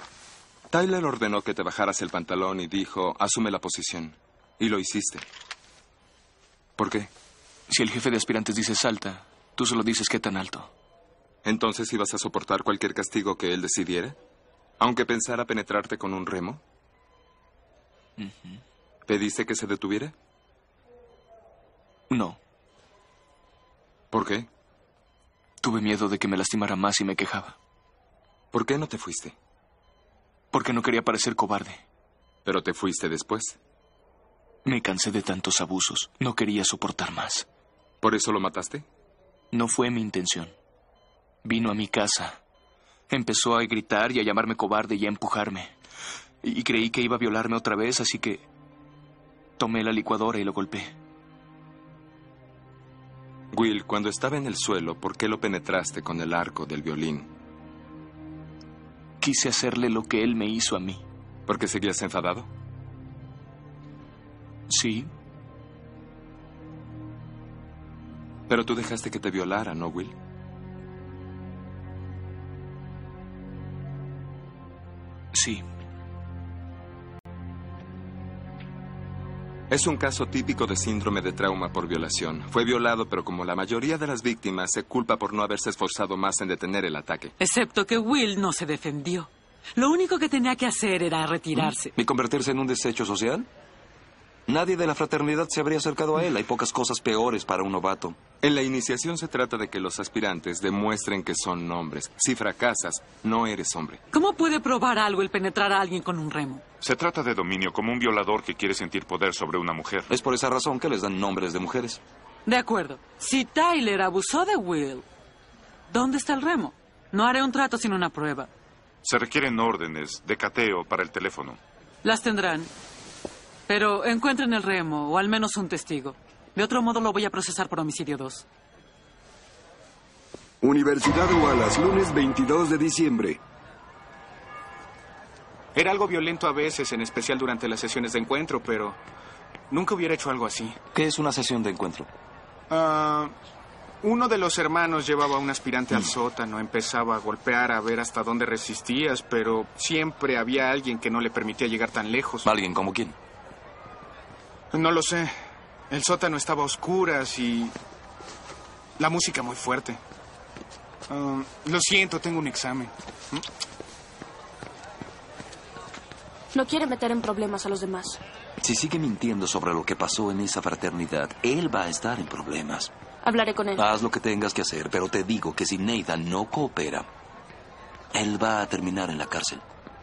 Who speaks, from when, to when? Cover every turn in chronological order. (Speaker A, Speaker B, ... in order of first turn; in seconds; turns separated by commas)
Speaker A: 0.7-5.2, Speaker A: 6.8-7.1, Speaker B: 7.7-10.7, Speaker A: 11.4-14.2, Speaker A: 14.8-16.6, Speaker B: 18.2-18.6, Speaker A: 19.1-20.1, Speaker B: 22.1-22.4, Speaker A: 24.1-24.5, Speaker B: 25.6-27.6, Speaker A: 28.5-29.4, Speaker B: 30.5-31.8, Speaker A: 32.5-33.6, Speaker B: 34.6-37.5, Speaker A: 38.0-38.9, Speaker B: 39.5-40.5, Speaker B: 41.4-42.4, Speaker B: 43.1-45.7, Speaker B: 46.4-48.5, Speaker B: 49.6-50.9, Speaker A: 53.5-57.3, Speaker B: 59.2-61.0, Speaker A: 61.5-62.5, Speaker B: 64.7-65.1, Speaker A: 68.5-70.1, Speaker B: 75.3-75.6, Speaker A: 79.7-87.3, Speaker C: 87.4-91.9, Speaker D: 91.6-93.5, Speaker D: 94.5-98.2, Speaker A: 98.4-104.0, Speaker C: 104.1-106.6, Speaker E: 106.8-110.1, Speaker D: 110.1-112.0, Speaker C: 112.5-115.0, Speaker C: 115.9-118.5, Speaker E: 119.0-121.6, Speaker C: 122.0-122.7, Speaker C: 123.7-128.4, Speaker F: 130.6-133.4, Speaker G: 135.8-139.0, Speaker G: 139.7-140.8, Speaker D: 140.9-142.1, Speaker G: 142.7-143.3, Speaker G: 144.0-152.5, Speaker D: 152.4-153.2, Speaker G: 154.7-155.3, Speaker G: 155.9-157.8, Speaker G: 159.0-160.0, Speaker G: 161.1-163.4, Speaker H: 166.5-168.2, Speaker D: 168.6-172.9, Speaker H: 173.2-173.9, Speaker D: 173.8-177.1, Speaker D: 178.1-179.6